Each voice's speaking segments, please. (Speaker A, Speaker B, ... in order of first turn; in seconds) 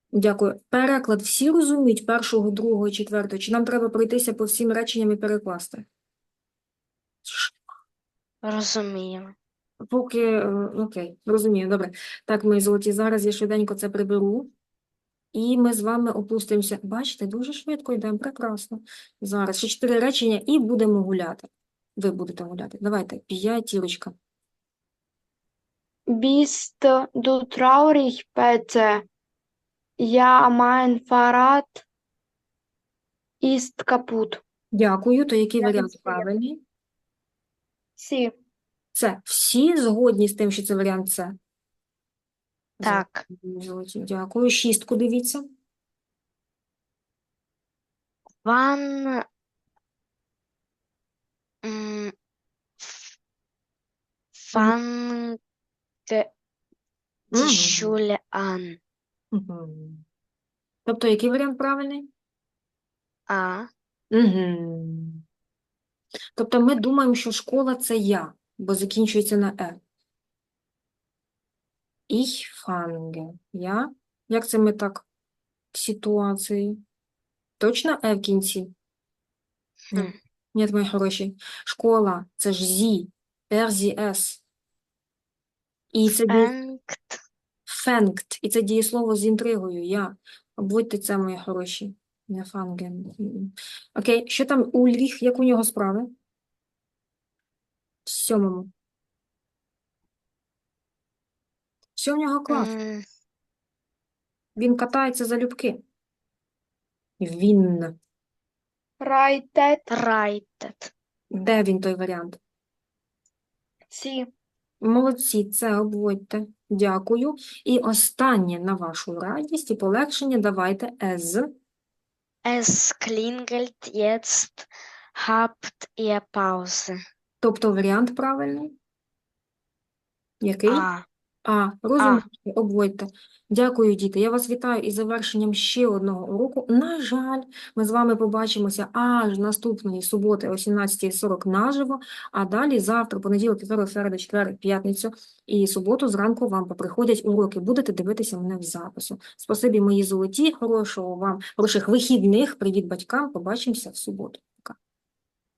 Speaker A: 0.1-5.8, 7.2-7.6, 9.9-14.5, 15.3-24.1, 34.7-36.6, 39.0-41.4, 42.8-45.5, 57.3-58.0, 59.3-60.0, 60.9-62.1, 64.1-65.2, 66.4-69.8, 72.1-75.1, 75.7-76.8, 77.6-78.7, 79.9-84.4, 85.9-86.5, 87.7-96.1, 98.1-98.7, 102.0-102.7, 104.6-105.8, 107.2-108.0, 111.3-112.4, 114.8-121.5, 127.4-128.8, 130.4-130.9, 131.4-154.8
Speaker B: 8.4-9.3, 42.8-43.2, 48.4-49.2, 51.6-52.1, 52.8-53.1, 54.4-55.4, 57.3-58.8, 63.3-63.7, 86.3-87.2, 102.5-103.0, 109.9-110.9, 122.5-127.0, 130.7-131.1, 132.0-132.2
Speaker C: 26.1-29.1, 30.0-31.9, 33.4-34.4, 35.6-36.3, 38.0-38.3, 109.0-109.9, 113.9-114.3